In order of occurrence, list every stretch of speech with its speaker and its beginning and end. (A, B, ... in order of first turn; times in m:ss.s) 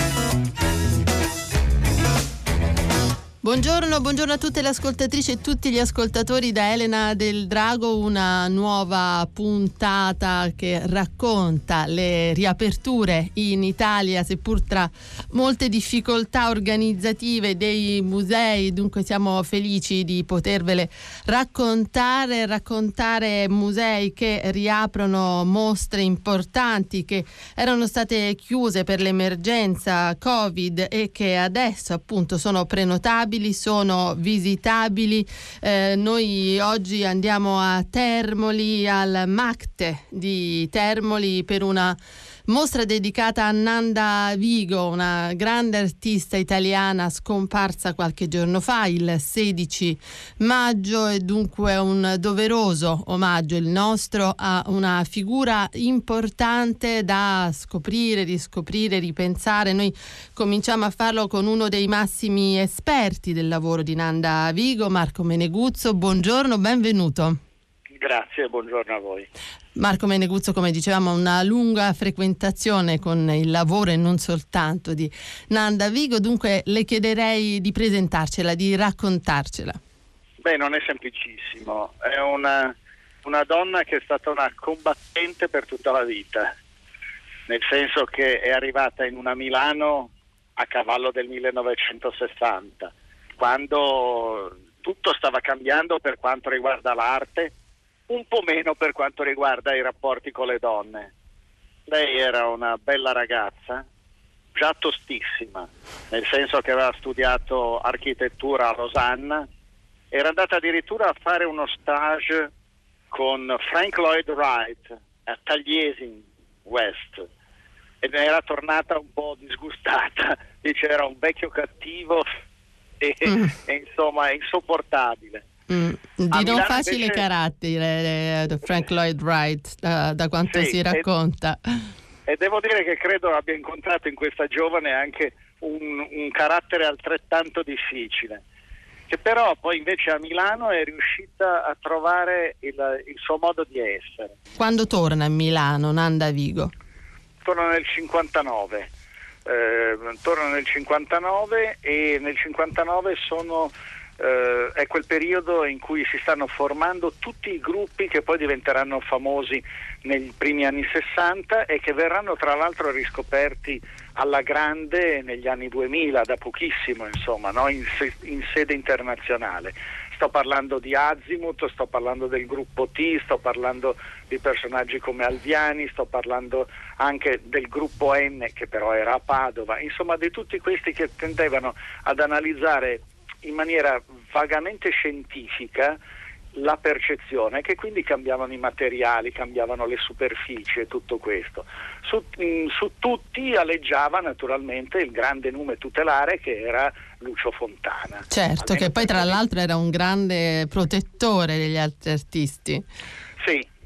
0:03.4-1:07.4 A
1:08.0-1:09.3 B
1:09.8-1:19.8 A
1:20.4-1:26.5 B
1:27.5-1:37.5 B
1:38.1-1:41.1 B
1:41.9-1:43.8 B
1:44.5-1:49.4 B
1:50.1-1:52.5 B
1:53.1-1:57.2 B
1:58.0-2:02.2 B
2:03.0-2:05.4 B
2:05.7-2:11.9 A
2:06.3-2:07.2 B
2:10.5-2:11.0 B
2:12.3-2:18.4 B
2:19.1-2:24.3 B
2:24.6-2:26.7 A
2:27.4-2:28.9 B
2:29.4-3:06.0 B
3:06.5-3:19.4 B
3:18.3-3:22.9 A
3:23.4-3:23.7 B